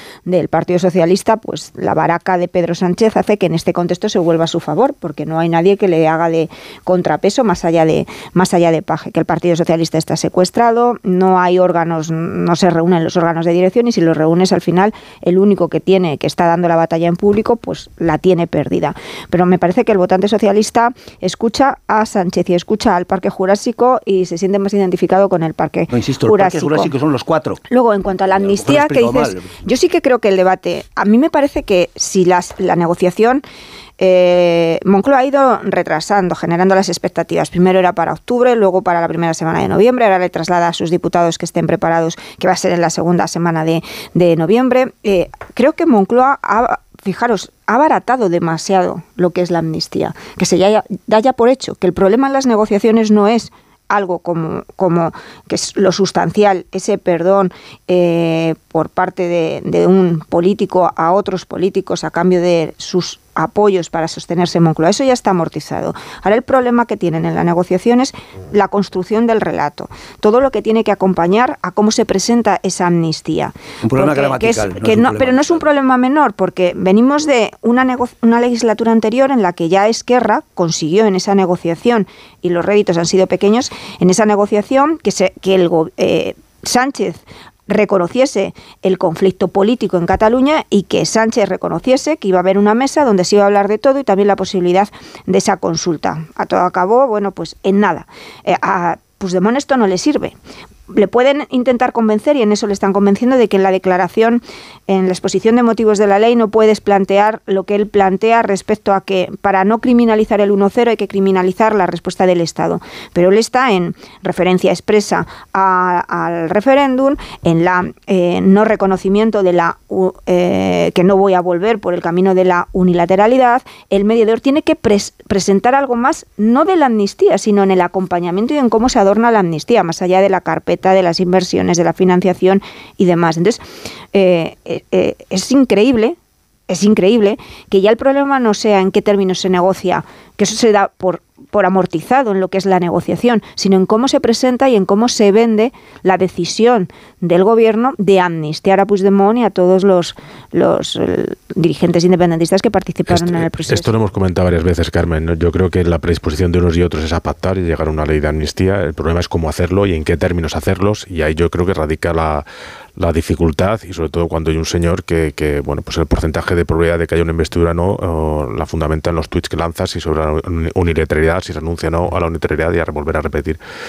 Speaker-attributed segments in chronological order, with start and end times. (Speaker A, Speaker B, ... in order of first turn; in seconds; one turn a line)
Speaker A: 0.2-26.9
Speaker B: 25.9-27.6
Speaker A: 27.7-33.4
Speaker B: 28.4-29.6
Speaker A: 34.0-100.4
Speaker B: 73.8-75.7
Speaker A: 100.9-133.6
Speaker A: 134.1-136.2
Speaker A: 136.7-153.9
Speaker C: 153.1-162.4
Speaker C: 163.0-173.6